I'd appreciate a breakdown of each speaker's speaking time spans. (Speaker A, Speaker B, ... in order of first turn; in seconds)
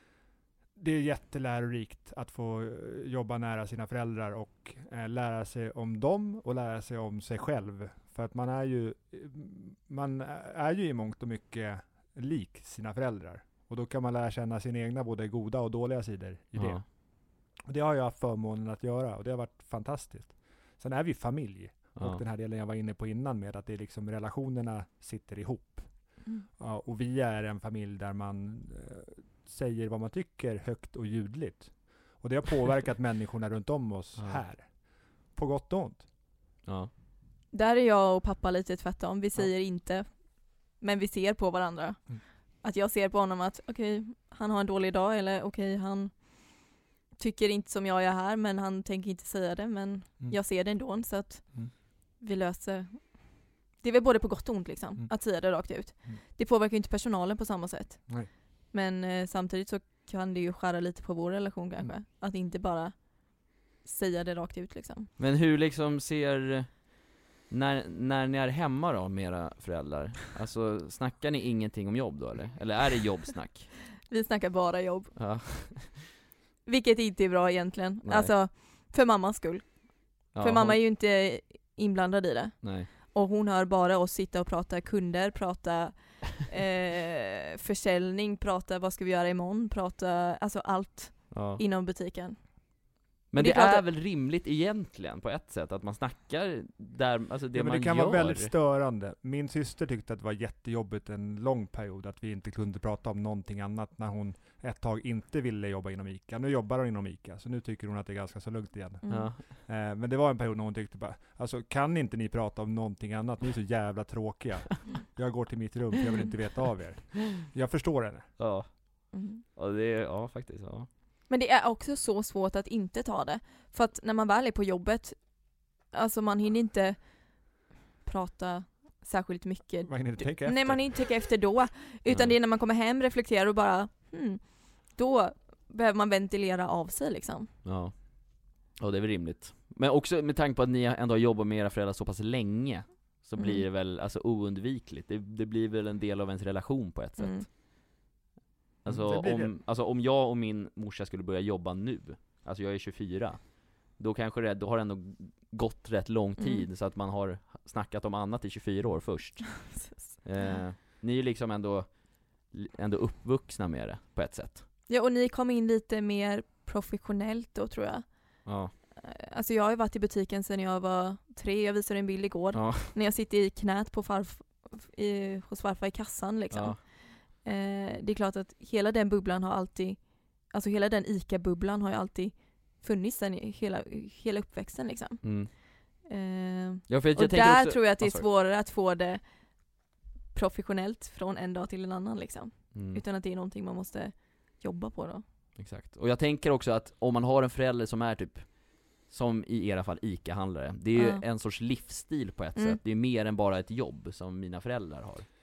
Speaker A: 0.8-16.9, 17.7-36.1, 97.5-118.3, 129.9-130.9, 148.9-149.5
Speaker B: 16.6-16.8, 22.0-22.2, 36.6-36.9, 65.2-66.9, 67.5-73.7, 75.2-76.1, 78.0-78.3, 80.3-80.8, 82.6-82.9, 91.3-91.6, 93.3-98.5, 109.1-109.4, 118.4-118.8, 119.5-120.9, 132.1-132.4, 137.6-147.4, 148.8-164.7, 168.4-168.7, 172.5-172.9, 176.5-176.8, 185.2-185.5, 186.9-188.2, 192.7-193.0, 195.6-205.3
Speaker C: 37.5-65.1, 74.1-75.2, 76.7-92.4, 93.3-93.8, 109.0-109.3, 119.1-119.4, 121.3-125.3, 125.9-127.0, 128.0-137.5, 143.4-143.7, 147.2-147.5, 156.4-156.7, 159.6-160.6, 164.9-168.1, 169.0-185.5, 186.0-189.2, 190.3-195.2, 200.9-201.2